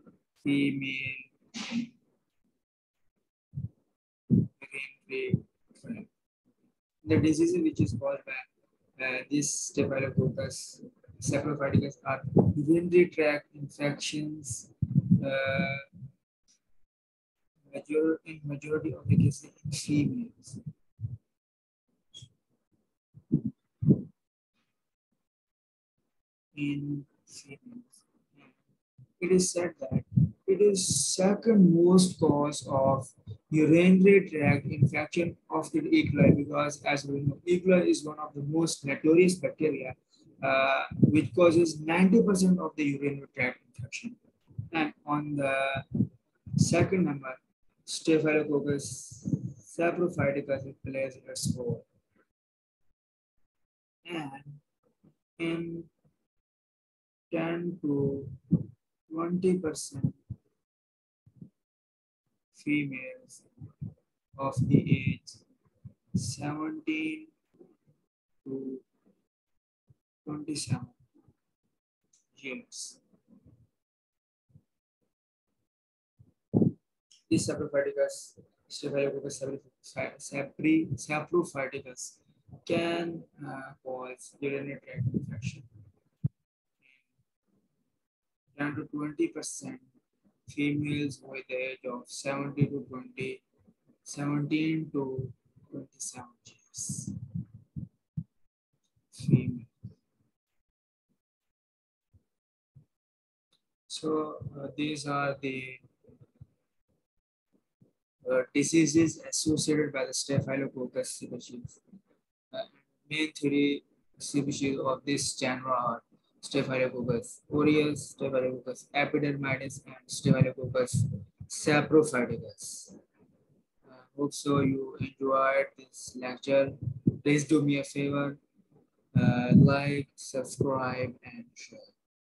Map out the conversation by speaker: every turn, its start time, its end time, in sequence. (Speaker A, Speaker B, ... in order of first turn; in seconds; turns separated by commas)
Speaker A: 0.4-1.8, Speaker A: 4.5-6.1, Speaker A: 7.0-8.5, Speaker A: 9.0-15.8, Speaker A: 17.7-20.6, Speaker A: 23.3-24.0, Speaker A: 26.5-28.5, Speaker A: 29.2-44.2, Speaker A: 44.7-45.9, Speaker A: 46.6-51.9, Speaker A: 54.0-54.6, Speaker A: 55.4-55.9, Speaker A: 57.3-58.4, Speaker A: 59.1-60.2, Speaker A: 62.5-63.4, Speaker A: 64.3-65.4, Speaker A: 66.1-67.3, Speaker A: 68.4-68.8, Speaker A: 70.2-71.0, Speaker A: 72.3-73.0, Speaker A: 77.3-85.7, Speaker A: 88.5-89.8, Speaker A: 90.5-93.4, Speaker A: 94.0-97.1, Speaker A: 99.1-99.7, Speaker A: 103.9-105.8, Speaker A: 108.2-111.8, Speaker A: 112.5-123.0, Speaker A: 123.8-128.4, Speaker A: 129.1-131.9